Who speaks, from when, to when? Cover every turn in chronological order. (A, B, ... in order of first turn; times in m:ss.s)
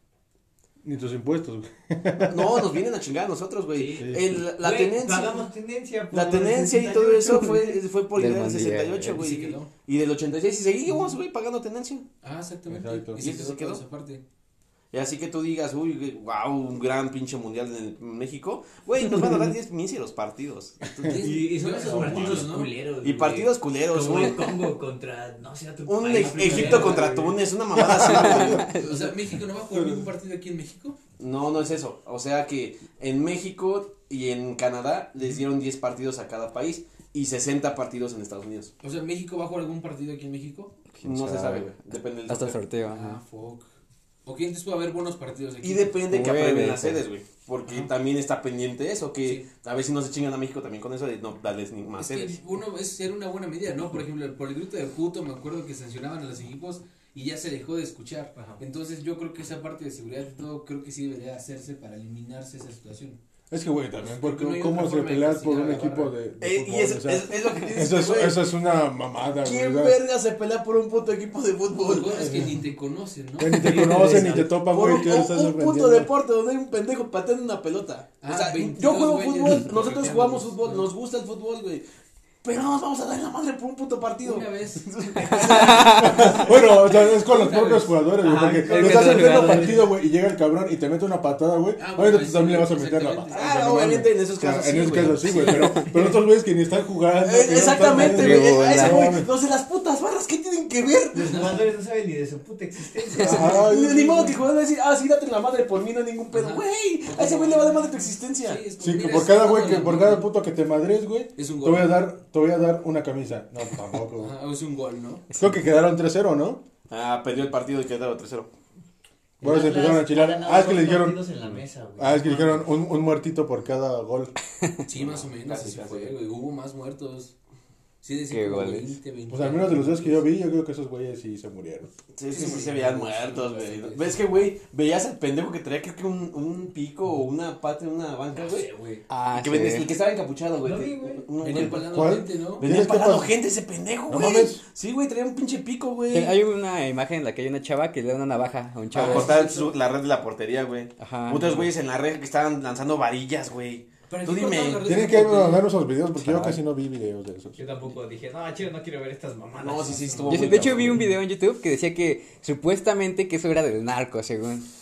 0:00.8-0:02.8 A
0:02.3-0:05.5 B
0:03.7-0:07.8 C
0:04.0-0:04.4 A
0:06.1-0:12.0 B
0:08.0-0:09.2 D
0:09.2-0:09.7 E
0:10.9-0:11.2 E
0:12.2-0:14.2 E
0:12.7-0:13.2 A
0:13.2-0:13.8 B
0:14.9-0:21.4 B
0:21.0-0:22.7 E
0:21.2-0:27.4 C
0:21.8-0:22.5 A
0:22.0-0:22.3 B
0:23.0-0:24.6 B
0:25.8-0:29.1 B
0:26.2-0:27.0 E
0:28.0-0:28.8 D
0:28.7-0:31.0 E
0:29.7-0:30.1 A
0:31.2-0:38.7 B
0:38.8-0:40.7 E
0:41.0-0:41.8 D
0:41.0-0:42.6 B
0:42.3-0:43.2 D
0:42.8-0:43.7 E
0:44.2-0:46.0 E
0:45.6-0:52.4 B
0:46.1-0:47.0 D
0:52.0-1:03.2 E
0:58.3-0:58.6 C
1:03.5-1:10.0 A
1:04.0-1:06.1 E
1:06.4-1:08.4 B
1:09.4-1:12.2 B
1:11.8-1:14.1 E
1:12.1-1:12.6 A
1:13.4-1:16.1 A
1:13.5-1:21.8 B
1:13.7-1:14.4 C
1:18.2-1:20.9 E
1:22.4-1:26.6 B
1:24.2-1:24.9 E
1:25.5-1:26.1 D
1:25.9-1:39.3 A
1:27.1-1:28.0 E
1:28.2-1:29.9 C
1:28.8-1:29.7 D
1:31.8-1:33.4 E
1:33.3-1:36.0 B
1:35.6-1:35.9 D
1:37.2-1:41.5 B
1:37.8-1:39.1 D
1:41.1-1:43.7 C
1:41.2-1:41.6 E
1:43.2-1:44.3 A
1:43.2-1:48.6 B
1:46.3-1:50.3 E
1:48.8-1:54.3 A
1:51.4-1:52.0 E
1:54.2-1:55.2 E
1:55.4-1:56.6 A
1:56.9-1:58.5 B
1:59.4-2:01.2 A
1:59.4-2:02.6 C
2:02.0-2:04.3 A
2:04.8-2:07.3 E
2:04.9-2:06.2 B
2:08.0-2:10.3 E
2:08.3-2:08.9 D
2:09.3-2:11.9 A
2:12.1-2:18.7 B
2:12.3-2:14.2 E
2:18.3-2:19.0 E
2:19.1-2:19.9 D
2:19.3-2:26.4 B
2:20.6-2:21.3 C
2:21.4-2:22.7 E
2:21.5-2:23.4 A
2:24.1-2:24.6 A
2:26.1-2:29.4 D
2:28.9-2:29.8 E
2:28.9-2:34.9 B
2:31.0-2:31.7 D
2:34.1-2:35.7 E
2:34.8-2:37.6 A
2:36.2-2:36.6 D
2:37.5-2:40.3 C
2:39.6-2:41.0 B
2:39.6-2:40.6 E
2:40.2-2:44.6 D